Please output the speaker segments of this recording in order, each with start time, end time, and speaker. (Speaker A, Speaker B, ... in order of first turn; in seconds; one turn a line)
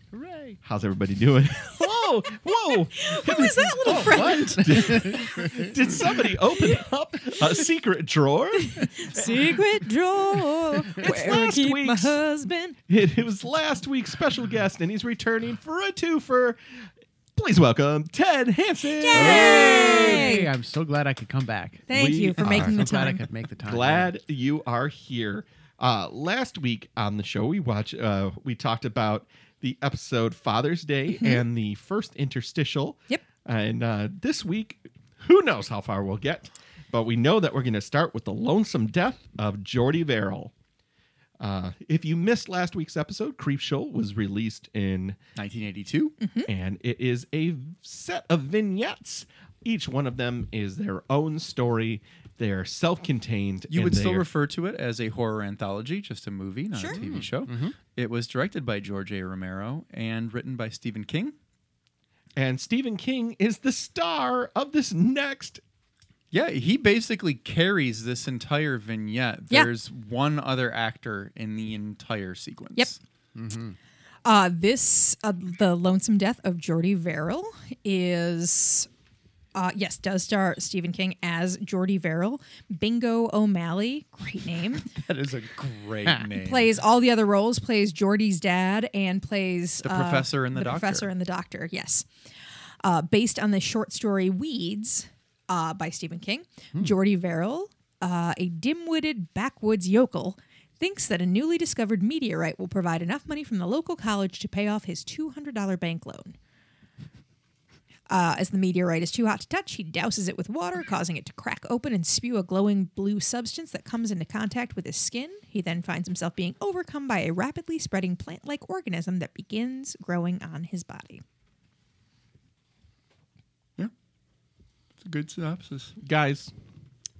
Speaker A: 0.1-0.6
Speaker B: 0.6-9.8
Speaker C: 1.9-5.2
Speaker A: 3.9-6.0
Speaker C: 6.5-6.8
Speaker C: 8.6-12.8
Speaker B: 10.8-12.2
Speaker B: 12.9-16.6
Speaker B: 17.4-20.3
Speaker C: 19.0-20.5
Speaker A: 19.1-24.1
Speaker C: 21.9-23.2
Speaker B: 21.9-22.8
Speaker B: 23.6-40.5
Speaker C: 31.1-31.4
Speaker B: 41.4-45.2
Speaker D: 45.4-46.1
Speaker C: 46.2-46.5
Speaker B: 46.5-54.2
Speaker D: 53.7-61.3
Speaker C: 56.7-57.0
Speaker A: 56.9-57.7
Speaker B: 62.4-65.6
Speaker D: 66.3-73.0
Speaker A: 73.3-73.8
Speaker C: 74.2-78.9
Speaker C: 79.5-84.8
Speaker D: 84.8-86.8
Speaker C: 86.4-92.1
Speaker D: 89.8-91.1
Speaker C: 92.8-106.3
Speaker C: 108.1-121.2
Speaker D: 125.0-125.9
Speaker B: 126.0-126.5